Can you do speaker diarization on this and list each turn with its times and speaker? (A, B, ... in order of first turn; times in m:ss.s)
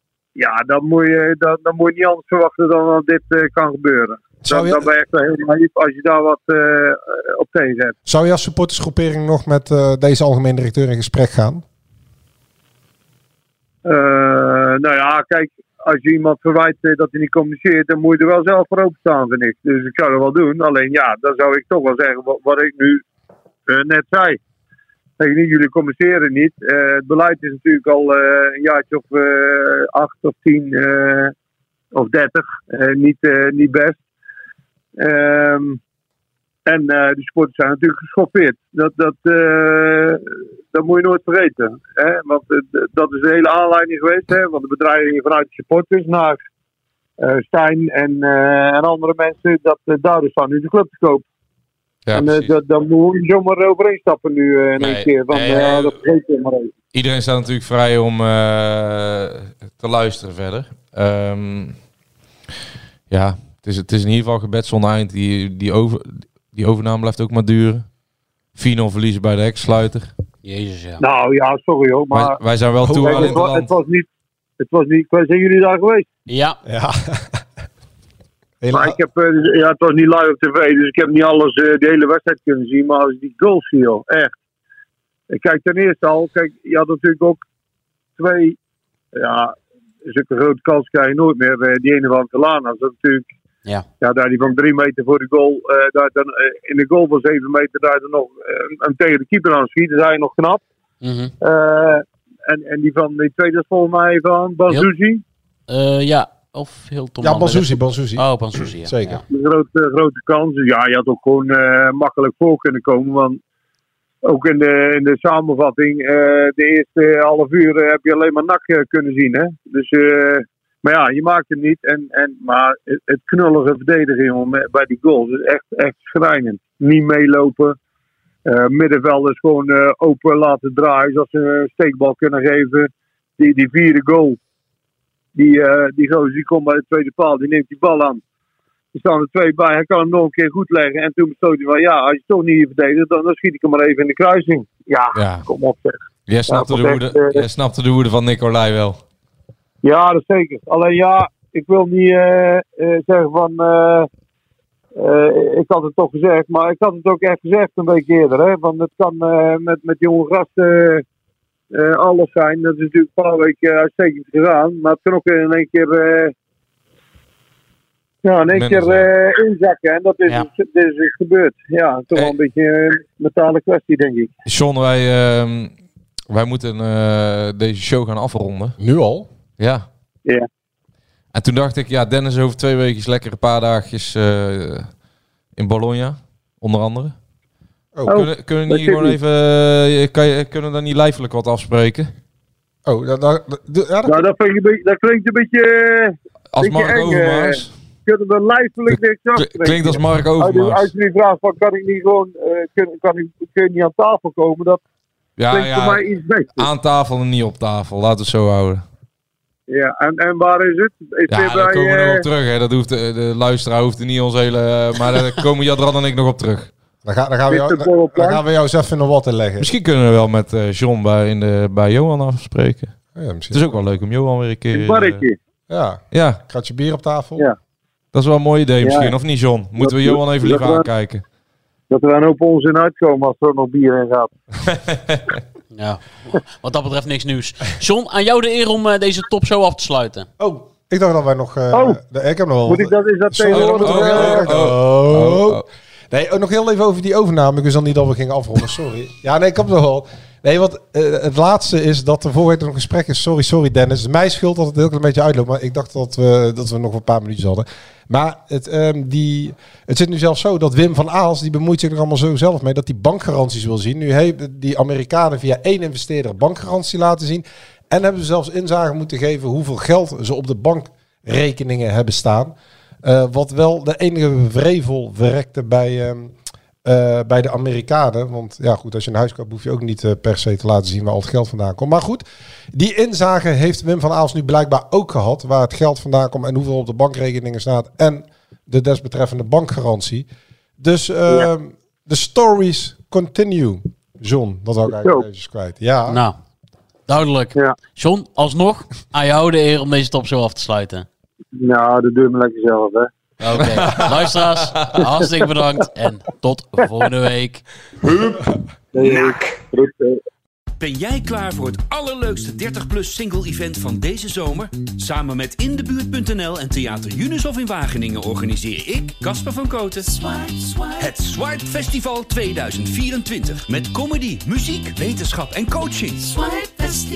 0:00.4-0:08.0 A
0:04.4-0:04.9 B
0:08.0-0:11.6 B
0:13.8-0:23.0 A
0:23.7-0:24.4 A
0:25.2-0:31.3 A
0:31.9-0:34.0 A
0:35.0-0:35.8 A
0:36.6-0:46.4 A
0:47.2-0:51.3 A
0:52.0-0:52.6 C
0:52.1-0:56.7 A
0:54.8-0:56.0 C
0:56.9-1:01.8 C
1:03.1-1:07.9 C
1:08.6-1:10.1 C
1:10.4-1:11.0 D
1:11.0-1:12.4 A
1:12.1-1:13.7 C
1:12.8-1:13.4 B
1:13.0-1:14.1 A
1:14.6-1:16.1 A
1:16.3-1:16.6 D
1:16.6-1:17.4 B
1:18.6-1:19.0 B
1:18.7-1:24.4 A
1:25.3-1:27.4 A
1:28.2-1:28.6 A
1:29.1-1:33.3 A
1:34.0-1:40.6 A
1:41.0-1:41.3 D
1:41.4-1:45.2 A
1:45.7-1:49.2 D
1:47.2-1:49.2 B
1:49.3-1:53.4 A
1:54.2-2:07.8 A
2:08.4-2:14.4 A
2:15.3-2:18.2 A
2:18.9-2:27.4 A
2:25.1-2:25.5 C
2:26.3-2:29.0 C
2:29.8-2:34.1 A
2:35.0-2:41.0 A
2:41.7-2:46.3 A
2:48.2-2:54.3 A
2:48.5-2:49.1 C
2:54.4-2:55.7 C
2:56.3-2:58.8 C
2:58.8-2:59.3 B
2:59.6-2:59.9 C
3:01.3-3:04.9 C
3:05.6-3:07.2 C
3:08.0-3:08.2 B
3:08.1-3:09.2 A
3:08.1-3:12.1 C
3:12.9-3:14.3 B
3:14.0-3:24.8 A
3:16.5-3:17.7 C
3:18.9-3:20.9 C
3:25.4-3:26.0 C
3:25.5-3:26.7 A
3:26.6-3:28.8 C
3:29.7-3:32.3 A
3:31.3-3:36.7 C
3:37.0-3:39.7 B
3:37.5-3:38.4 A
3:39.6-3:43.0 C
3:43.1-3:43.9 B
3:43.5-3:45.3 C
3:44.7-3:45.4 A
3:45.7-3:47.5 B
3:46.1-3:46.4 C
3:48.1-3:51.2 C
3:48.8-3:49.2 A
3:49.8-3:50.9 A
3:51.9-3:54.3 A
3:54.7-3:55.4 C
3:55.7-4:00.3 D
4:00.4-4:50.3 B
4:01.7-4:02.0 A
4:02.6-4:04.5 A
4:03.5-4:05.6 C
4:50.8-4:56.2 B
4:54.9-4:55.3 A
4:56.1-4:56.4 D
4:57.1-5:01.0 D
5:01.6-5:03.1 A
5:03.4-5:07.6 D
5:03.8-5:04.0 C
5:08.9-5:10.2 A
5:10.8-5:20.3 E
5:20.9-5:26.5 E